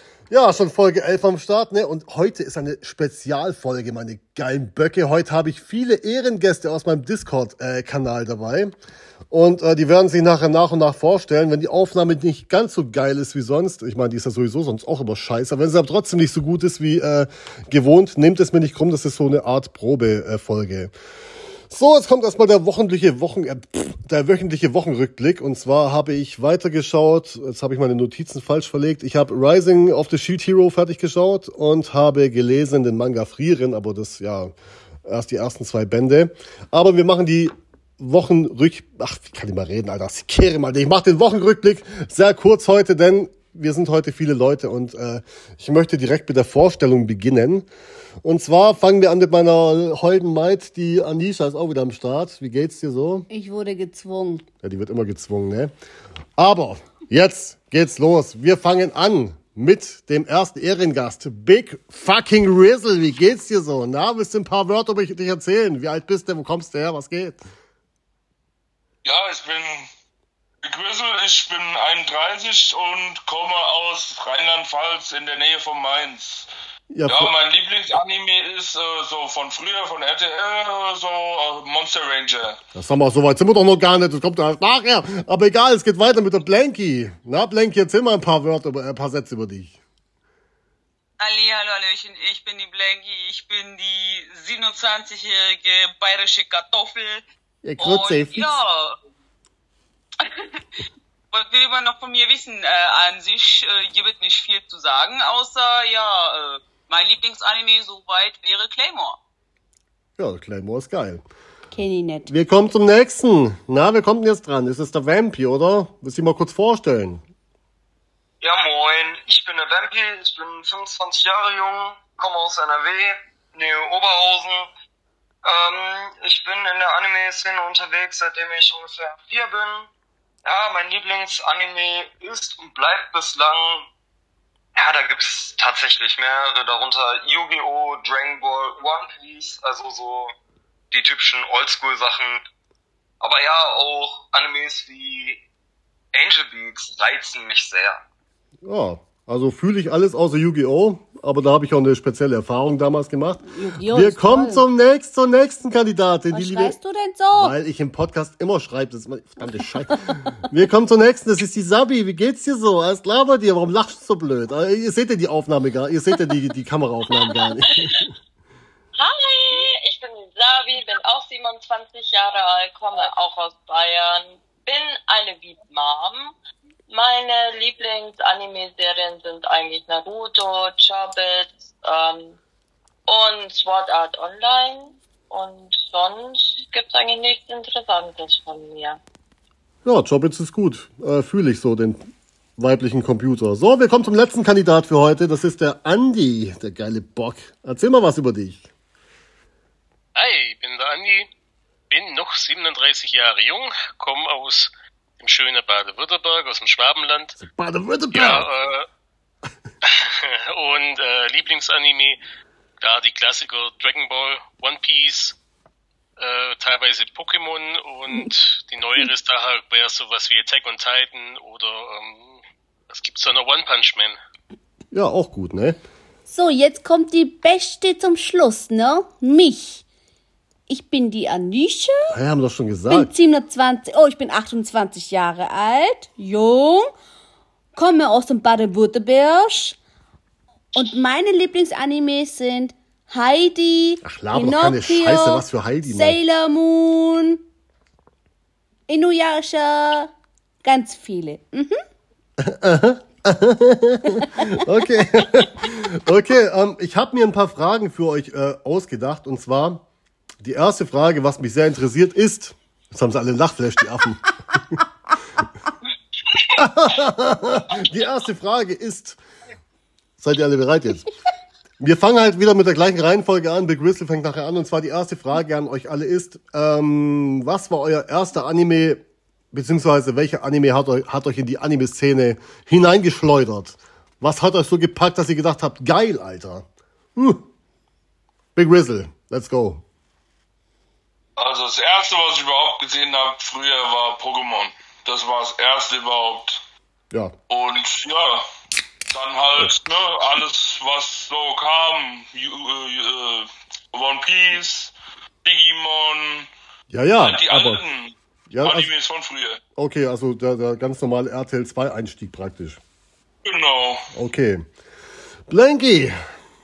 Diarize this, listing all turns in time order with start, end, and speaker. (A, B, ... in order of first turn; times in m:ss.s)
0:00.3-0:08.7 A
0:09.3-0:20.9 A
0:21.7-0:34.5 A
0:35.0-0:47.7 A
0:48.2-0:53.3 A
0:53.3-0:54.4 B
0:54.6-0:55.7 A
0:56.4-1:07.4 A
1:09.0-1:09.9 C
1:10.6-1:16.5 C
1:16.9-1:17.3 A
1:17.0-1:22.6 C
1:22.7-1:29.8 A
1:31.2-1:37.2 D
1:37.6-1:38.5 A
1:37.8-1:39.0 D
1:40.2-1:40.6 D
1:41.3-1:49.2 D
1:50.2-1:51.2 A
1:51.7-1:52.3 B
1:52.3-1:57.2 A
1:58.4-2:04.7 E
2:05.4-2:09.9 E
2:10.4-2:13.9 E
2:14.7-2:20.3 E
2:20.9-2:22.4 E
2:23.2-2:25.4 E
2:26.1-2:28.0 E
2:28.6-2:36.8 A
2:33.5-2:34.6 B
2:36.3-2:37.5 B
2:37.3-2:48.1 A
2:49.0-2:56.3 F
2:56.9-3:02.4 F
3:03.1-3:09.0 F
3:09.8-3:18.7 A
3:20.1-3:21.3 G
3:21.9-3:27.4 G
3:27.4-3:28.5 A
3:28.1-3:28.9 G
3:29.8-3:32.2 G
3:32.8-3:35.4 G
3:36.2-3:44.2 G
3:44.9-3:45.8 A
3:46.3-3:49.8 B
3:50.7-3:52.1 B
3:52.1-3:53.1 A
3:52.9-3:56.9 B
3:57.7-3:59.8 B
4:00.7-4:07.4 B
4:04.0-4:06.2 A
4:08.9-4:10.1 B
4:10.6-4:11.8 B
4:12.4-4:19.8 A
4:20.4-4:24.8 A
4:26.5-4:29.2 A
4:30.2-4:31.1 A
4:31.8-4:47.4 A
4:48.5-4:49.8 A
4:51.4-4:56.6 C
4:57.5-4:58.4 C
4:59.1-5:06.5 C
5:06.9-5:07.8 A
5:07.2-5:09.6 C
5:08.5-5:08.9 A
5:09.8-5:12.8 A
5:13.4-5:14.1 C
5:14.1-5:14.6 A
5:15.5-5:16.2 A